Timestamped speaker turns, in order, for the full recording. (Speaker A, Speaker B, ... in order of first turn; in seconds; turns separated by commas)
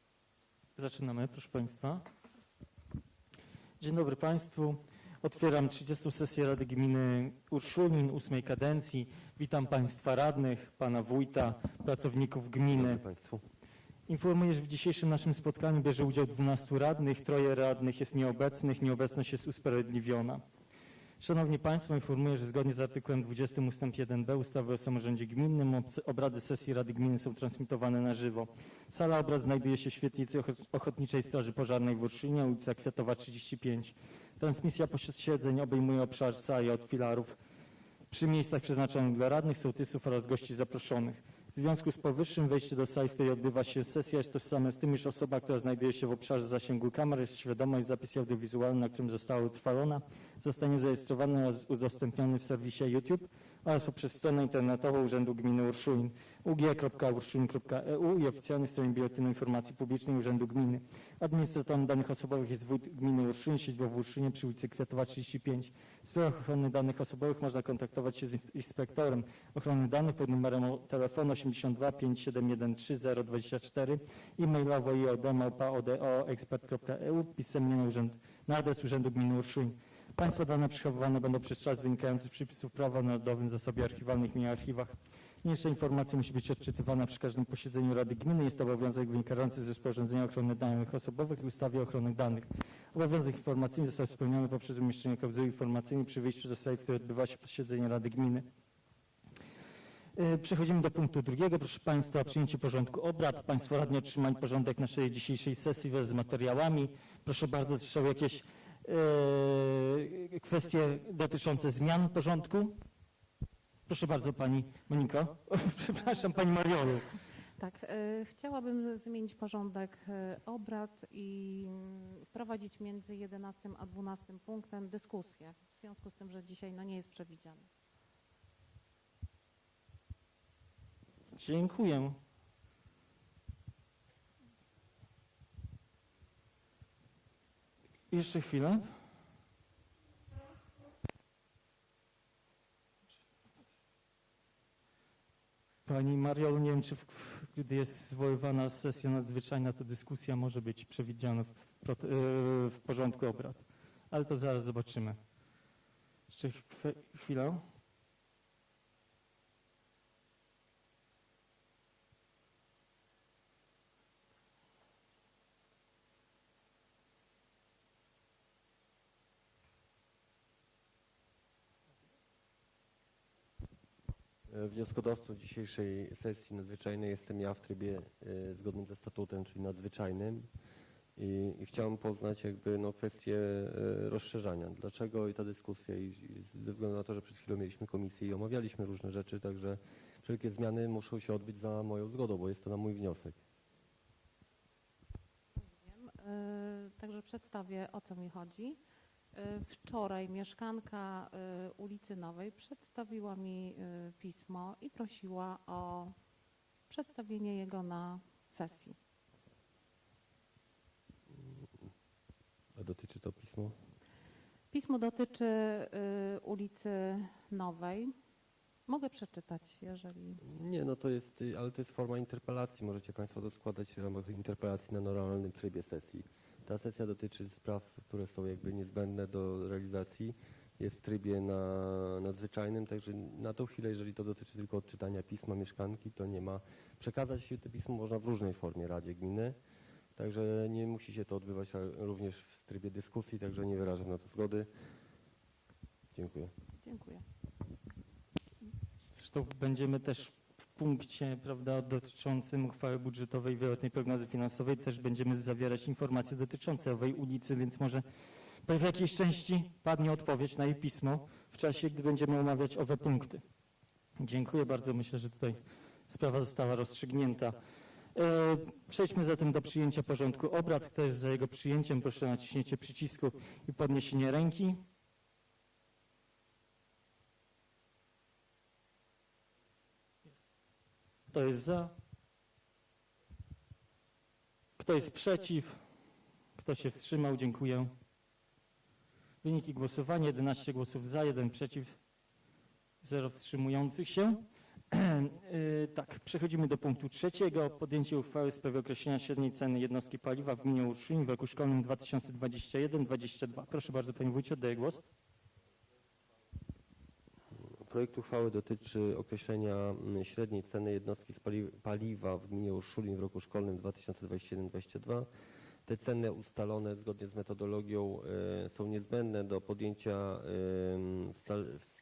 Speaker A: 0.8-2.0, Speaker A: 3.8-13.0, Speaker B: 12.7-13.4, Speaker A: 14.1-20.4, Speaker A: 21.2-37.4, Speaker A: 38.1-98.5, Speaker A: 100.1-112.8, Speaker A: 113.9-117.2, Speaker C: 117.6-127.7, Speaker A: 131.3-132.2, Speaker A: 138.1-138.9, Speaker A: 145.8-155.2, Speaker A: 156.3-157.6, Speaker B: 174.5-180.5, Speaker B: 181.2-193.4, Speaker C: 195.6-198.8, Speaker C: 199.3-206.1, Speaker C: 206.9-209.0, Speaker B: 212.8-213.7, Speaker C: 214.7-218.1, Speaker C: 218.9-220.4, Speaker B: 220.4-239.6, Speaker B: 240.2-244.7, Speaker B: 246.1-246.5, Speaker C: 246.8-247.2, Speaker A: 249.1-263.4, Speaker A: 264.2-267.6, Speaker A: 268.1-274.8, Speaker A: 281.3-281.9, Speaker A: 284.8-285.8, Speaker A: 286.5-287.9, Speaker A: 289.4-292.0, Speaker A: 293.0-305.1, Speaker B: 307.9-315.3, Speaker B: 315.9-321.9